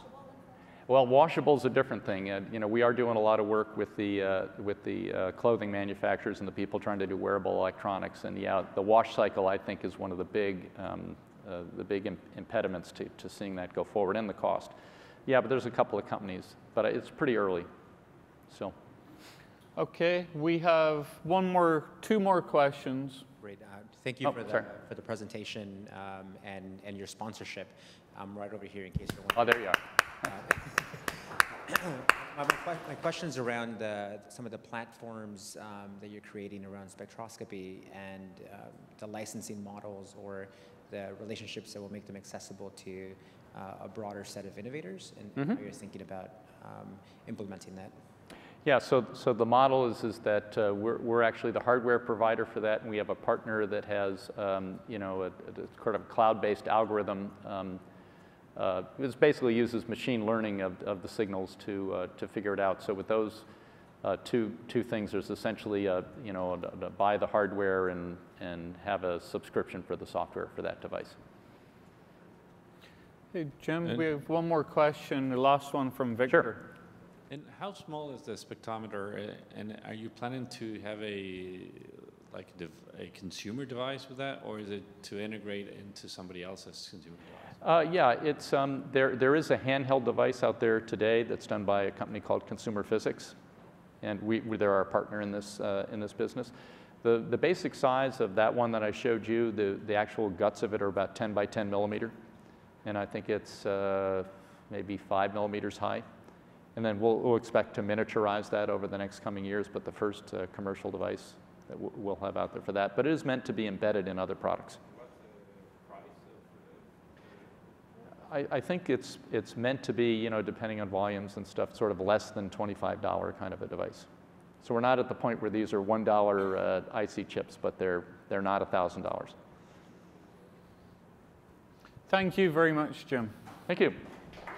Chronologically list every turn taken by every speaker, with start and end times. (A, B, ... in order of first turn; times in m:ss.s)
0:00.9-0:14.7 A
0:15.3-0:17.7 A
0:18.5-0:18.7 A
0:19.8-0:23.2 B
0:23.4-0:47.9 C
0:29.4-0:29.8 A
0:48.6-0:57.8 A
0:58.6-1:03.4 A
1:04.0-1:11.2 A
1:13.3-1:16.7 B
1:17.3-1:27.5 D
1:27.6-1:33.4 A
1:34.0-1:42.1 A
1:42.8-1:46.0 A
1:46.8-1:54.8 A
1:55.8-1:56.6 D
1:58.3-2:04.1 A
2:04.6-2:09.3 A
2:12.1-2:13.3 B
2:13.7-2:14.0 A